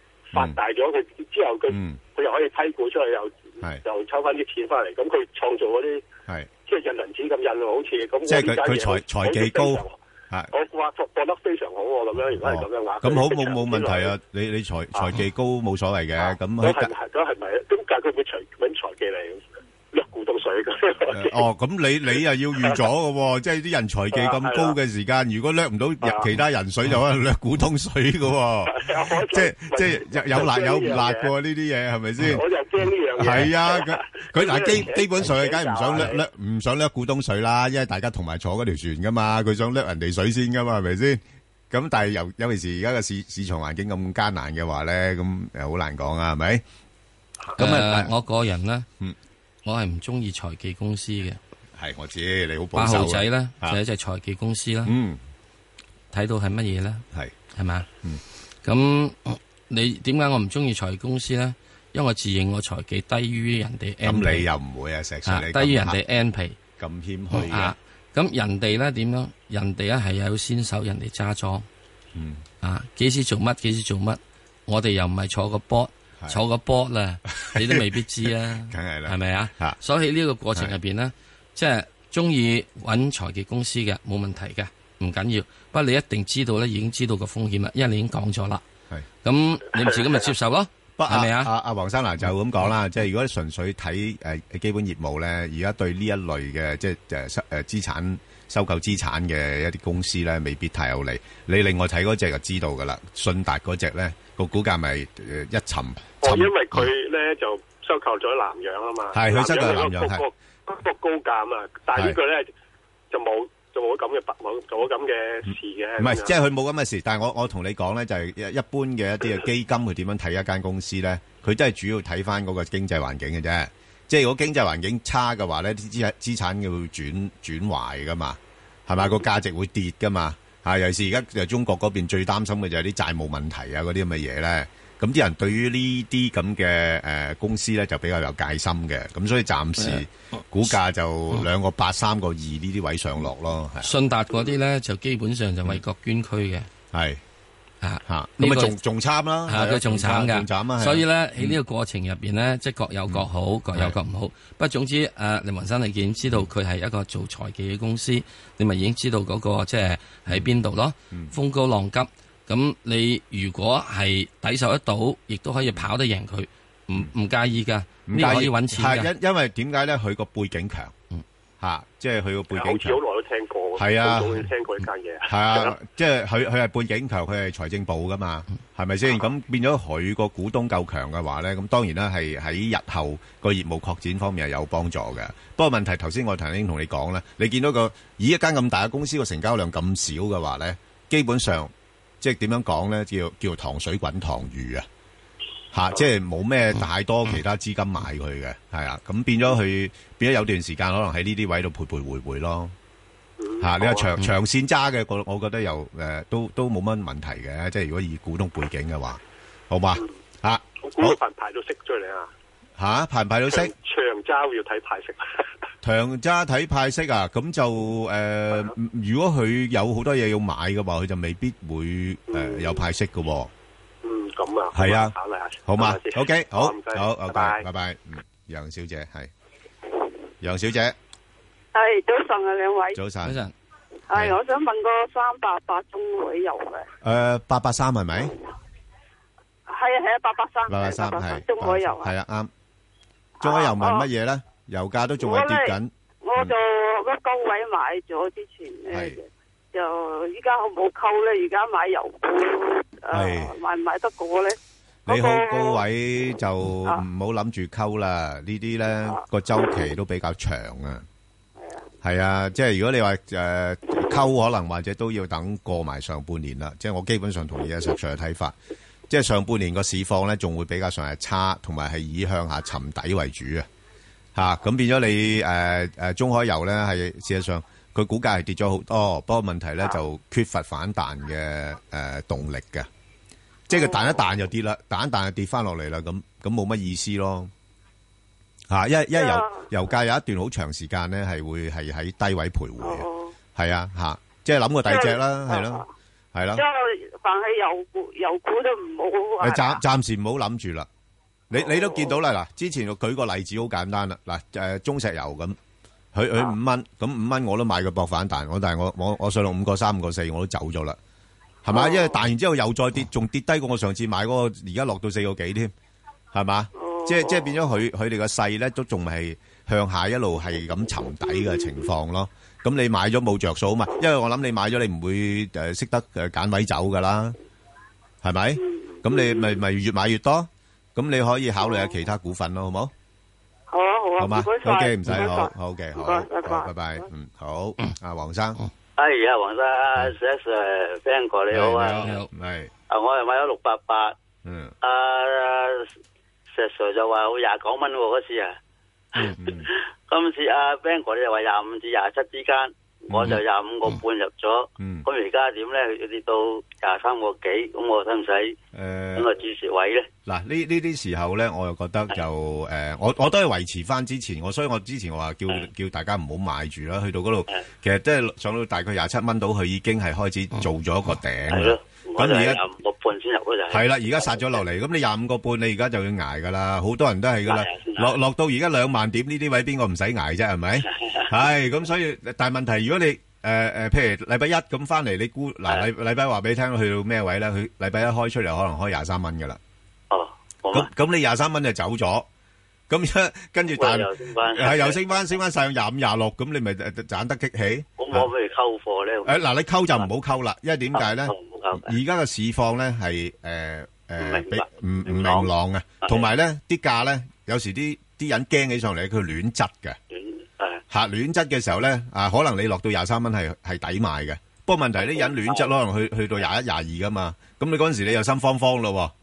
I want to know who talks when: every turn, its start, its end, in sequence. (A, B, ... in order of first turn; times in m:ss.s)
0:00.3-0:06.0 A
0:01.7-0:02.0 B
0:06.6-0:10.0 A
0:08.3-0:10.5 B
0:10.5-0:14.1 A
0:12.4-0:16.9 B
0:16.2-0:21.4 A
0:21.1-0:32.4 B
0:24.1-0:24.8 A
0:26.0-0:26.3 A
0:28.7-0:31.3 A
0:32.2-0:36.2 A
0:33.1-0:46.6 B
0:47.5-0:48.1 B
0:47.6-0:48.9 C
0:49.6-0:51.4 C
0:51.7-0:53.8 B
0:52.7-0:54.9 C
0:54.8-0:55.2 B
0:56.1-0:57.9 C
0:58.6-1:04.5 C
1:04.0-1:06.0 B
1:05.2-1:06.6 C
1:06.8-1:07.8 B
1:07.3-1:11.6 C
1:12.1-1:12.4 B
1:12.6-1:28.6 C
1:17.3-1:19.8 B
1:29.2-1:31.5 C
1:31.0-1:46.5 B
1:46.2-1:52.5 A
1:49.1-1:50.2 B
1:53.1-1:56.4 A
1:56.0-2:23.9 B
2:19.8-2:20.0 C
2:23.8-2:26.7 C
2:26.9-2:27.2 B
2:27.8-2:28.8 C
2:28.0-2:31.6 B
2:29.5-2:49.1 C
2:33.1-2:34.0 B
2:48.1-2:50.9 B
2:51.6-2:53.0 B
2:52.5-2:55.8 A
2:53.8-2:54.4 B
2:55.2-3:14.8 B
3:15.7-3:22.7 B
3:23.4-3:24.1 A
3:23.6-3:31.2 B
3:30.8-3:32.3 A
3:32.8-3:33.7 B
3:33.5-3:35.4 A
3:35.8-3:43.5 B
3:42.3-3:42.6 A
3:44.0-3:47.6 A
3:44.7-3:49.3 B
3:50.4-3:51.0 B
3:51.7-3:53.0 D
3:52.9-3:53.4 B
3:53.2-3:53.5 C
3:54.1-3:54.4 B
3:54.1-3:56.9 D
3:57.0-3:58.3 B
3:59.7-4:02.1 D
4:00.7-4:02.5 B
4:03.4-4:04.1 D
4:03.4-4:06.5 B
4:05.2-4:15.8 D
4:08.9-4:09.2 B
4:13.1-4:13.6 B
4:15.0-4:21.0 B
4:22.0-4:28.6 B
4:29.1-4:33.7 B
4:34.3-4:42.9 B
4:43.7-4:47.5 B
4:48.7-4:56.6 B
4:49.1-4:49.7 D
4:52.8-4:53.3 D
4:54.8-4:55.9 D
4:56.5-4:59.8 D
4:59.4-5:00.9 B
5:01.5-5:05.6 B
5:01.7-5:02.1 D
5:06.1-5:11.0 B
5:11.6-5:15.7 B
5:11.7-5:12.1 D
5:16.3-5:27.4 B
5:16.8-5:17.4 D
5:28.2-5:32.9 B
5:29.1-5:29.4 D
5:33.7-5:37.0 D
5:34.2-5:38.6 B
5:39.0-5:42.0 E
5:41.5-5:42.7 B
5:42.0-5:42.3 C
5:42.9-5:44.1 E
5:44.4-5:44.7 B
5:44.8-5:45.9 E
5:46.5-5:48.5 E
5:49.3-5:49.7 B
5:49.5-5:58.6 E
5:53.1-5:53.4 B
5:54.8-5:55.1 B
5:58.7-5:59.3 B
5:59.2-6:00.1 E
6:00.2-6:12.6 B
6:11.5-6:13.8 E
6:13.7-6:29.6 B
6:17.5-6:18.1 E
6:30.1-6:30.9 E
6:30.7-6:32.2 B
6:32.9-6:38.3 B
6:33.8-6:35.0 E
6:38.0-6:39.3 E
6:39.2-6:50.0 B
6:41.0-6:41.9 E
6:44.2-6:45.5 E
6:50.1-6:50.8 E
6:50.9-6:59.1 B
6:55.1-6:55.6 E